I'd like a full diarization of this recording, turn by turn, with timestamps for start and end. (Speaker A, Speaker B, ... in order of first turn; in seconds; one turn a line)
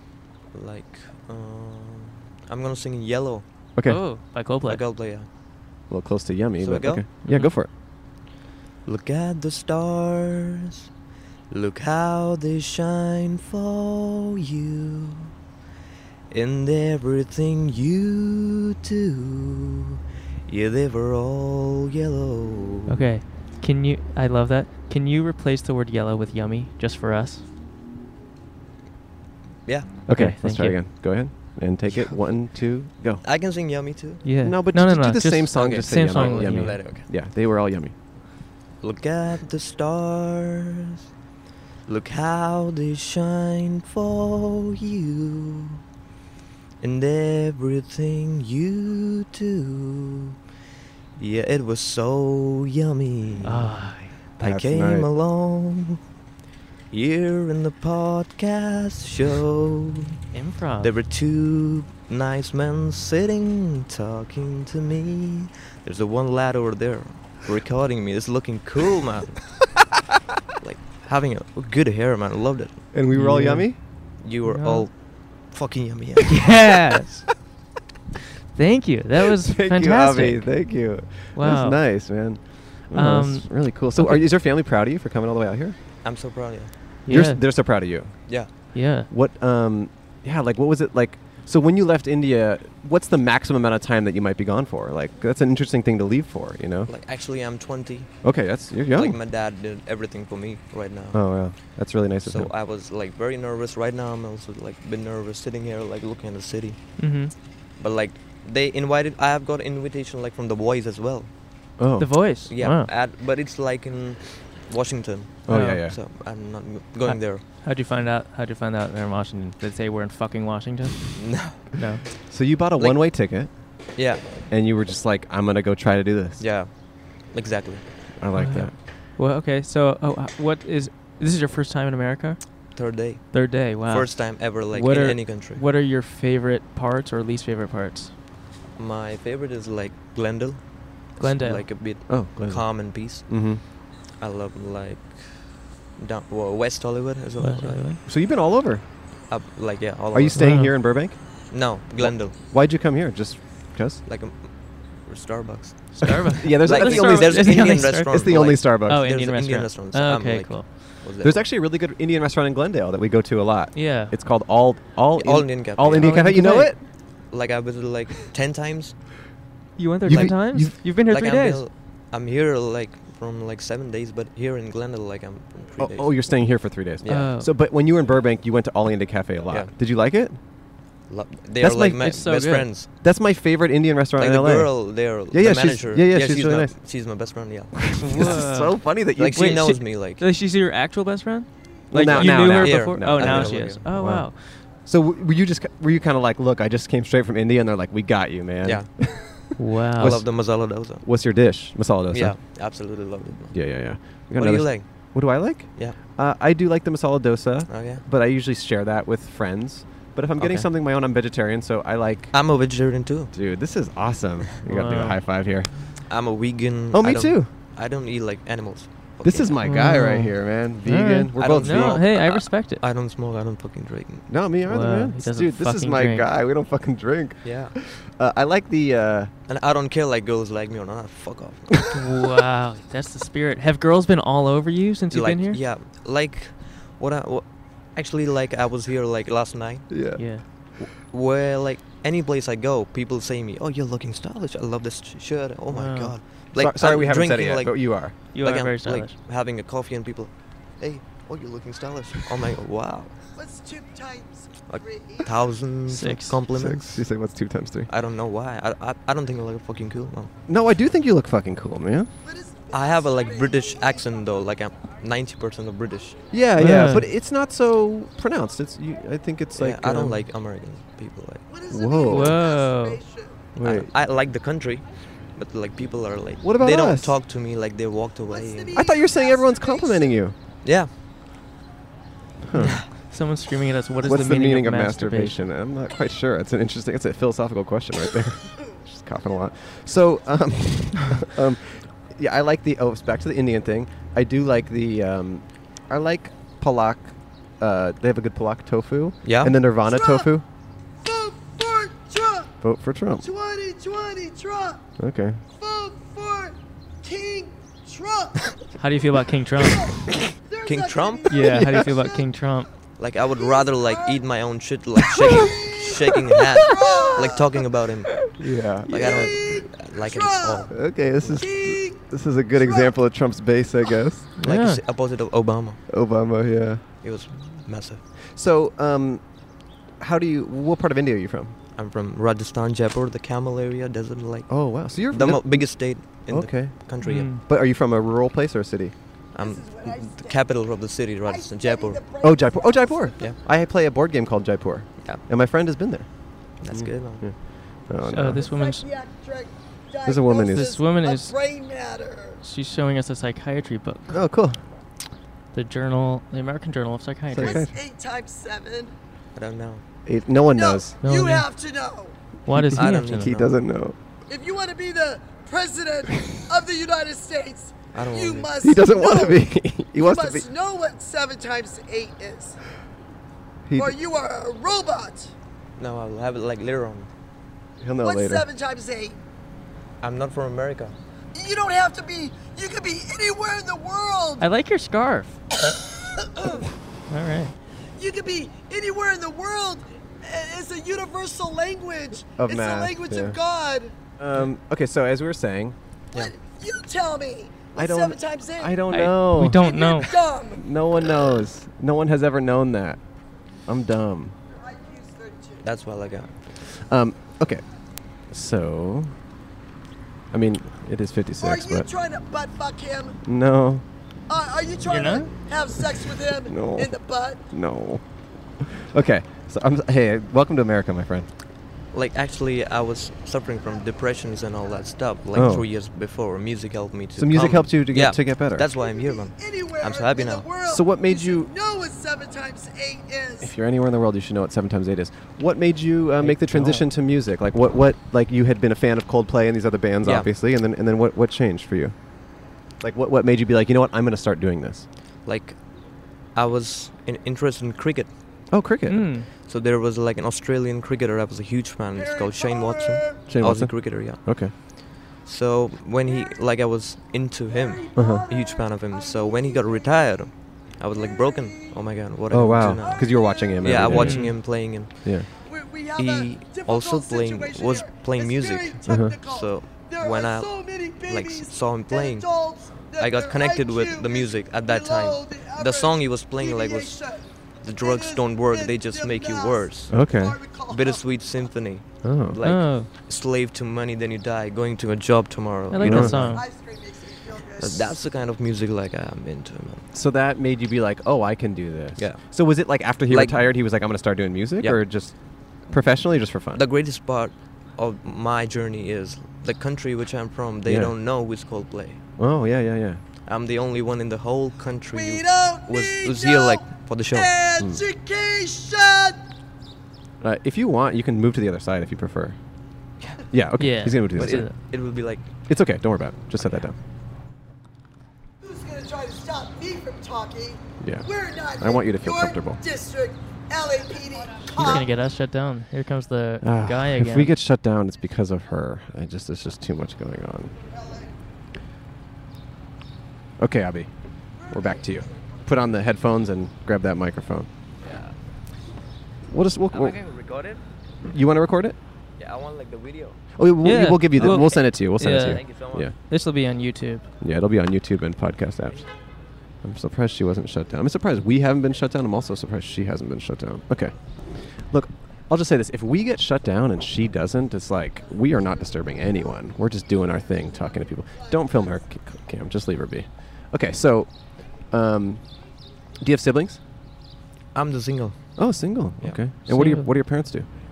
Speaker A: 0.5-3.5
Speaker B: 3.7-4.0
Speaker C: 3.9-4.8
Speaker A: 4.7-5.3
Speaker B: 5.9-7.7
Speaker A: 6.6-7.1
Speaker C: 7.2-7.5
Speaker A: 8.8-10.9
Speaker A: 11.5-15.3
Speaker A: 16.3-23.0
Speaker C: 22.9-27.4
Speaker A: 29.6-30.0
Speaker B: 30.1-33.2
Speaker C: 30.1-30.8
Speaker A: 33.2-34.2
Speaker C: 34.2-36.8
Speaker B: 34.4-37.9
Speaker A: 35.5-37.1
Speaker A: 38.8-41.0
Speaker A: 41.9-45.8
Speaker A: 46.8-50.4
Speaker A: 51.1-53.7
Speaker C: 53.4-54.1
Speaker A: 54.4-56.0
Speaker B: 54.4-55.1
Speaker A: 56.9-60.1
Speaker C: 60.3-60.9
Speaker A: 60.8-69.7
Speaker A: 70.6-72.9
Speaker B: 72.9-73.8
Speaker C: 73.1-74.8
Speaker A: 74.2-76.6
Speaker C: 76.3-77.3
Speaker C: 78.5-80.7
Speaker B: 79.3-85.8
Speaker C: 81.3-81.8
Speaker C: 82.9-84.2
Speaker A: 86.0-86.7
Speaker C: 87.0-87.4
Speaker B: 87.1-96.9
Speaker C: 88.7-89.1
Speaker A: 96.9-98.3
Speaker B: 98.2-99.2
Speaker A: 98.9-111.4
Speaker B: 101.1-102.5
Speaker C: 107.0-107.3
Speaker B: 111.8-112.2
Speaker C: 112.0-112.9
Speaker A: 112.5-117.4
Speaker B: 115.5-116.0
Speaker C: 115.5-115.8
Speaker C: 117.0-122.0
Speaker A: 121.2-121.7
Speaker B: 122.3-123.5
Speaker A: 122.8-123.2
Speaker A: 123.9-124.2
Speaker B: 124.5-126.4
Speaker A: 126.4-128.0
Speaker B: 128.2-128.7
Speaker C: 128.3-132.8
Speaker A: 132.7-135.6
Speaker C: 133.3-138.1
Speaker A: 138.8-143.5
Speaker C: 141.2-141.7
Speaker B: 142.1-143.6
Speaker A: 144.2-147.8
Speaker C: 147.4-148.0
Speaker B: 148.1-148.8
Speaker A: 149.3-150.7
Speaker B: 150.1-151.2
Speaker C: 150.3-150.7
Speaker A: 151.5-152.3
Speaker B: 152.0-154.0
Speaker A: 154.0-161.4
Speaker C: 155.9-158.1
Speaker B: 156.3-159.1
Speaker C: 158.8-160.8
Speaker B: 161.2-166.8
Speaker C: 163.7-164.1
Speaker A: 165.1-166.2
Speaker C: 165.9-166.7
Speaker A: 167.0-169.0
Speaker C: 169.8-171.6
Speaker B: 170.0-170.8
Speaker A: 170.1-177.3
Speaker B: 175.8-180.4
Speaker C: 177.1-177.5
Speaker A: 181.1-182.9
Speaker B: 181.6-182.2
Speaker C: 182.0-182.7
Speaker B: 183.0-186.8
Speaker A: 184.2-188.4
Speaker B: 187.9-189.8
Speaker C: 188.0-194.4
Speaker A: 189.2-190.2
Speaker B: 191.9-200.5
Speaker A: 192.0-193.8
Speaker A: 198.6-201.0
Speaker C: 199.6-200.2
Speaker B: 201.0-202.4
Speaker A: 202.1-206.0
Speaker B: 203.5-212.4
Speaker A: 207.7-208.0
Speaker A: 212.3-213.3
Speaker B: 213.3-216.0
Speaker C: 214.6-215.2
Speaker A: 216.1-219.6
Speaker B: 216.9-217.5
Speaker B: 219.2-222.1
Speaker C: 219.6-222.8
Speaker A: 221.3-224.3
Speaker B: 224.3-229.3
Speaker C: 224.7-226.3
Speaker A: 227.4-227.7
Speaker A: 229.5-231.9
Speaker C: 231.9-235.6
Speaker A: 235.1-240.1
Speaker B: 239.9-240.3
Speaker C: 240.2-240.4
Speaker A: 240.8-253.1
Speaker C: 245.7-246.1
Speaker B: 246.5-248.2
Speaker C: 248.3-249.1
Speaker D: 253.3-255.3
Speaker A: 254.7-257.0
Speaker C: 255.9-256.4
Speaker B: 256.5-257.9
Speaker A: 257.9-260.3
Speaker B: 260.5-262.1
Speaker D: 262.2-264.1
Speaker A: 262.7-266.2
Speaker B: 266.3-270.2
Speaker C: 266.6-267.1
Speaker A: 269.5-271.4
Speaker D: 271.5-273.4
Speaker B: 271.7-272.4
Speaker C: 272.1-273.0
Speaker B: 273.5-273.9
Speaker A: 273.6-278.8
Speaker B: 276.4-277.1
Speaker D: 278.3-280.2
Speaker B: 278.7-280.4
Speaker A: 280.6-280.9
Speaker B: 282.4-282.9
Speaker C: 282.5-285.4
Speaker B: 284.0-300.4
Speaker A: 299.2-299.6
Speaker D: 299.8-300.3
Speaker D: 301.0-302.5
Speaker B: 302.6-303.3
Speaker D: 303.2-304.9
Speaker B: 305.0-305.4
Speaker D: 305.6-308.6
Speaker C: 308.8-309.9
Speaker D: 309.6-312.2
Speaker A: 310.6-311.5
Speaker C: 311.3-312.7
Speaker B: 311.5-311.8
Speaker A: 313.0-318.2
Speaker D: 313.3-314.2
Speaker D: 315.2-317.5
Speaker B: 318.4-319.3
Speaker A: 318.9-320.7
Speaker D: 318.9-322.0
Speaker B: 320.7-324.3
Speaker D: 322.6-322.9
Speaker C: 324.4-324.8
Speaker A: 324.4-325.8
Speaker B: 325.9-326.8
Speaker A: 327.0-328.0
Speaker B: 328.3-329.4
Speaker B: 330.0-331.6
Speaker A: 331.7-337.3
Speaker B: 334.5-338.9
Speaker C: 337.0-337.4
Speaker A: 339.3-342.0
Speaker D: 339.4-340.4
Speaker D: 341.2-343.3
Speaker B: 342.2-348.4
Speaker A: 346.6-347.3
Speaker C: 348.1-348.9
Speaker D: 348.2-352.4
Speaker B: 350.0-350.8
Speaker C: 350.5-351.3
Speaker C: 352.4-354.2
Speaker B: 354.1-354.6
Speaker C: 355.5-357.6
Speaker B: 357.3-357.7
Speaker D: 357.4-358.9
Speaker A: 359.3-359.8
Speaker B: 360.1-360.9
Speaker D: 360.5-362.1
Speaker C: 361.0-361.4
Speaker C: 362.5-363.3
Speaker B: 362.5-364.0
Speaker A: 362.7-363.5
Speaker D: 364.3-372.6
Speaker A: 367.9-368.5
Speaker B: 368.6-370.5
Speaker B: 373.6-373.9
Speaker D: 373.8-375.3
Speaker A: 375.8-377.1
Speaker B: 377.8-378.5
Speaker D: 378.0-379.2
Speaker A: 380.0-380.9
Speaker D: 381.3-384.4
Speaker C: 384.4-385.4
Speaker D: 385.7-386.7
Speaker C: 387.1-387.5
Speaker D: 387.9-393.9
Speaker B: 392.4-393.4
Speaker B: 394.2-395.8
Speaker D: 396.1-399.0
Speaker B: 397.7-399.7
Speaker C: 398.9-400.1
Speaker D: 399.6-401.4
Speaker B: 400.5-403.0
Speaker B: 403.6-404.3
Speaker D: 404.5-405.7
Speaker A: 405.6-406.3
Speaker B: 406.6-409.2
Speaker B: 410.3-411.9
Speaker D: 411.4-413.2
Speaker B: 413.2-413.8
Speaker D: 414.3-417.4
Speaker C: 414.9-415.3
Speaker B: 416.5-418.0
Speaker B: 418.6-421.3
Speaker A: 421.9-430.5
Speaker B: 425.3-425.7
Speaker B: 427.1-428.6
Speaker D: 428.7-433.5
Speaker B: 430.6-431.5
Speaker B: 433.4-441.9
Speaker C: 436.2-436.8
Speaker A: 440.0-440.3
Speaker B: 442.8-444.9
Speaker A: 445.2-445.6
Speaker A: 446.3-448.1
Speaker B: 448.5-449.1
Speaker C: 448.9-449.3
Speaker A: 449.4-465.2
Speaker D: 451.9-453.2
Speaker B: 453.3-454.5
Speaker D: 456.1-456.3
Speaker D: 457.5-459.9
Speaker B: 457.9-458.3
Speaker D: 460.9-461.8
Speaker B: 462.3-465.3
Speaker D: 462.6-464.0
Speaker C: 463.9-464.3
Speaker D: 465.4-481.0
Speaker A: 465.9-472.3
Speaker B: 468.9-469.2
Speaker A: 472.9-477.0
Speaker A: 477.6-480.0
Speaker B: 479.9-480.4
Speaker A: 480.7-486.4
Speaker B: 482.0-482.4
Speaker C: 482.4-482.9
Speaker C: 485.7-486.4
Speaker B: 485.8-486.2
Speaker D: 486.2-487.9
Speaker A: 487.6-489.8
Speaker B: 489.9-496.6
Speaker A: 491.9-492.4
Speaker A: 493.1-493.5
Speaker A: 496.5-502.0
Speaker B: 500.6-500.9
Speaker B: 502.2-503.0
Speaker A: 503.2-507.3
Speaker D: 504.9-509.2
Speaker B: 510.2-512.4
Speaker B: 513.3-514.5
Speaker C: 513.6-514.5
Speaker A: 514.1-515.3
Speaker B: 515.5-516.8
Speaker D: 518.4-524.9
Speaker B: 520.8-522.6
Speaker C: 524.5-527.3
Speaker B: 526.4-530.5
Speaker D: 530.7-531.1
Speaker B: 533.4-537.5
Speaker A: 537.8-538.1
Speaker B: 539.3-540.0
Speaker A: 539.7-540.6
Speaker B: 541.0-541.8
Speaker A: 542.2-543.2
Speaker B: 543.3-545.9
Speaker C: 543.6-545.5
Speaker A: 544.2-545.9
Speaker C: 546.0-547.0
Speaker B: 547.2-548.9
Speaker B: 549.6-565.4
Speaker B: 566.0-566.6
Speaker A: 567.5-568.4
Speaker B: 568.4-570.5
Speaker C: 569.5-569.9